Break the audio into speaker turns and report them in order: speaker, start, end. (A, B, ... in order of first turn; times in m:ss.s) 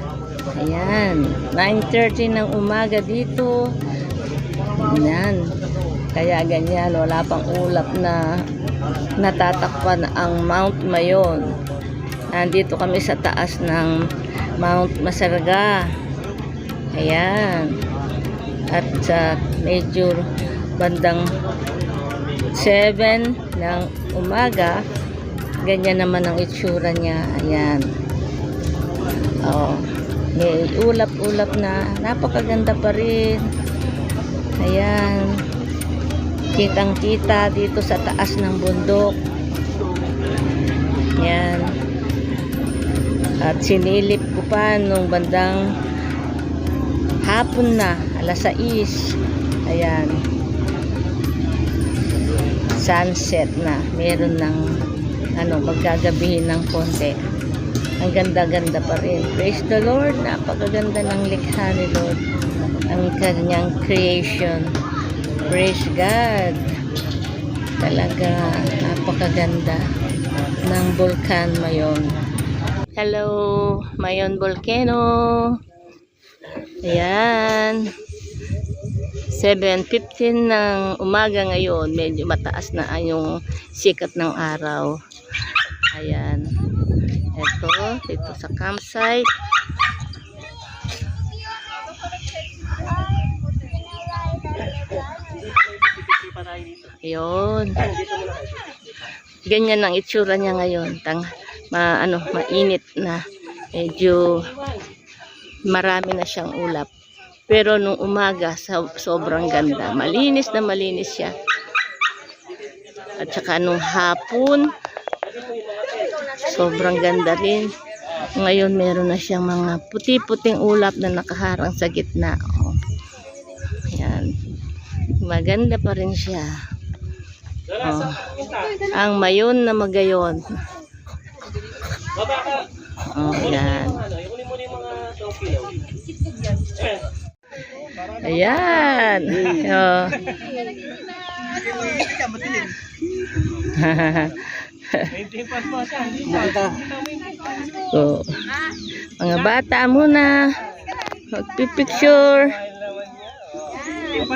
0:00.5-0:03.6 A
0:04.7-0:05.5 A
0:06.1-0:08.4 A
0:09.2-0:11.6 A
0:12.3-0:14.0 A
0:14.6-0:16.0 A
0:16.9-0:17.8 A
0:18.7-0:20.2 A
0:20.8-0:21.3 A
0:22.5-0:24.8 A
0:25.6-0:27.8 A
0:29.4-0:33.5 A
0:34.6-0:35.4 A
0:36.5-0:39.2 A
0:41.2-0:41.8 A
0:43.4-0:45.6 A
0:47.2-0:50.2 A
0:52.7-0:54.6 A
0:55.4-0:57.2 A
0:58.0-1:02.2 A
1:02.9-1:04.7 A
1:05.4-1:06.8 A
1:07.8-1:09.8 A
1:10.6-1:12.1 A
1:12.9-1:15.6 A
1:16.6-1:17.9 A
1:19.2-1:25.0 A
1:25.9-1:26.5 A
1:27.3-1:29.3 A
1:36.7-1:37.9 A
1:39.4-1:44.7 A
1:45.7-1:46.9 A
1:47.5-1:51.3 A
1:53.1-1:54.7 A
1:56.1-2:02.8 A
2:03.6-2:04.3 A
2:05.1-2:06.6 A
2:07.7-2:10.6 A
2:13.0-2:14.0 A
2:18.0-2:20.4 A
2:23.5-2:25.7 A
2:27.7-2:32.6 A